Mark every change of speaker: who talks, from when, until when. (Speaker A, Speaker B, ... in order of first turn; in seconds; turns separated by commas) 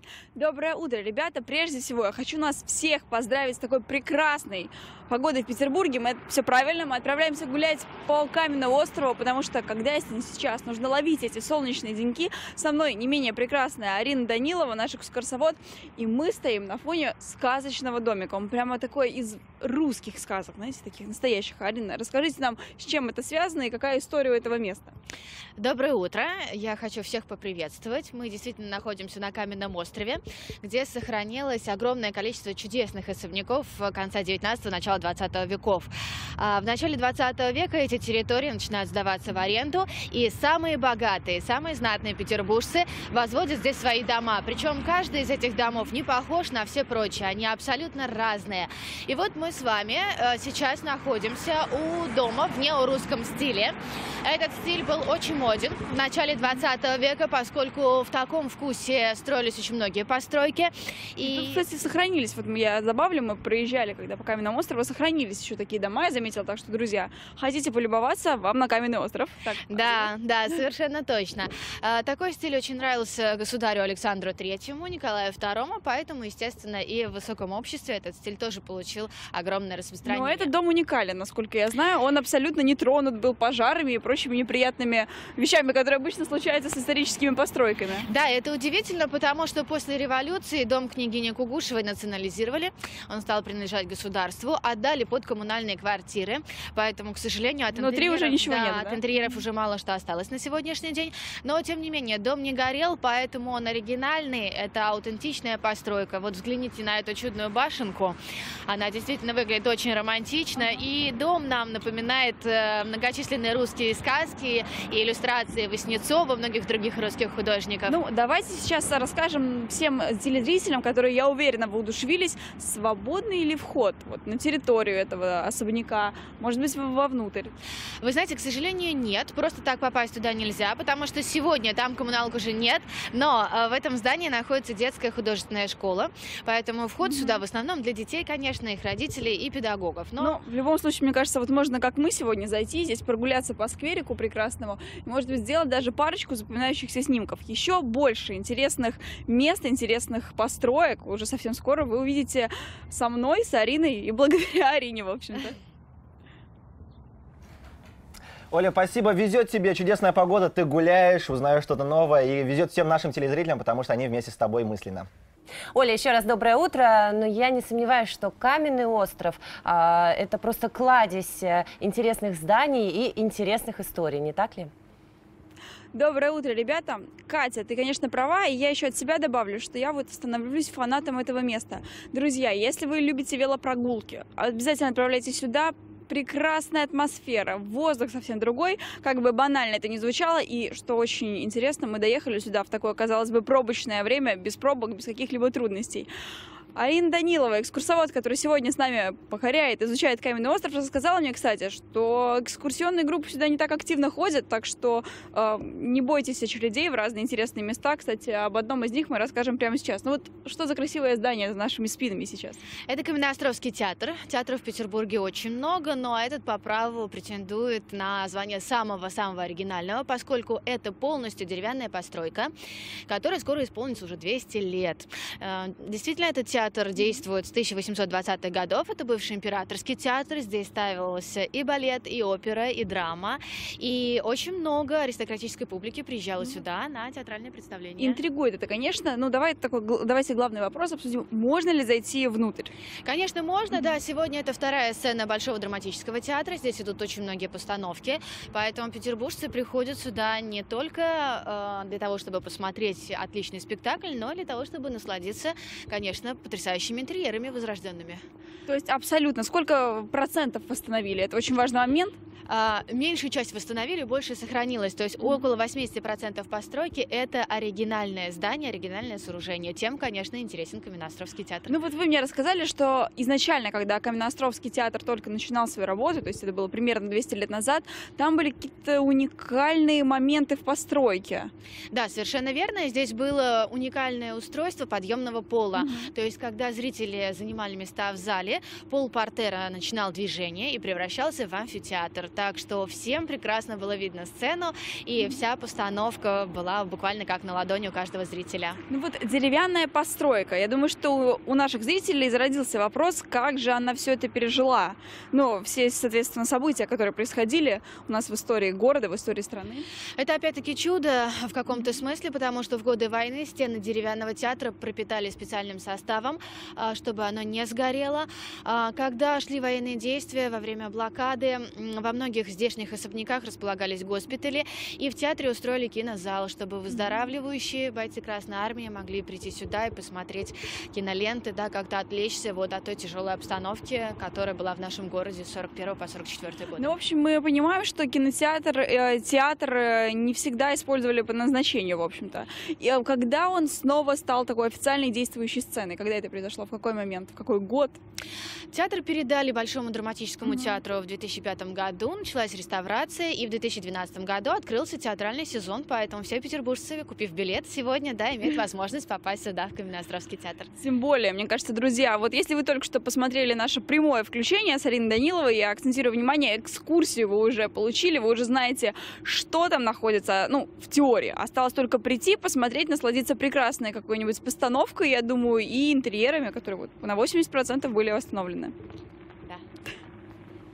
Speaker A: 0.3-24.9, Speaker B: 25.6-61.6, Speaker A: 61.2-70.1, Speaker B: 69.7-80.5, Speaker A: 80.0-88.0, Speaker B: 88.0-118.0, Speaker A: 97.7-99.0, Speaker A: 117.9-127.5, Speaker B: 128.0-140.4, Speaker A: 137.0-137.4, Speaker A: 140.2-155.6, Speaker C: 158.5-165.1, Speaker D: 165.7-174.7, Speaker A: 175.9-196.1, Speaker A: 196.7-212.6, Speaker B: 212.8-222.5, Speaker B: 223.1-238.2, Speaker A: 238.0-242.7, Speaker B: 243.0-258.2, Speaker A: 258.7-262.2, Speaker B: 262.4-271.8, Speaker A: 271.7-281.5, Speaker B: 281.9-298.8, Speaker A: 285.7-286.1, Speaker A: 298.9-309.9, Speaker B: 310.1-336.9, Speaker A: 326.9-327.2, Speaker A: 336.8-348.0, Speaker B: 348.7-360.7, Speaker A: 350.4-350.8, Speaker A: 360.8-378.7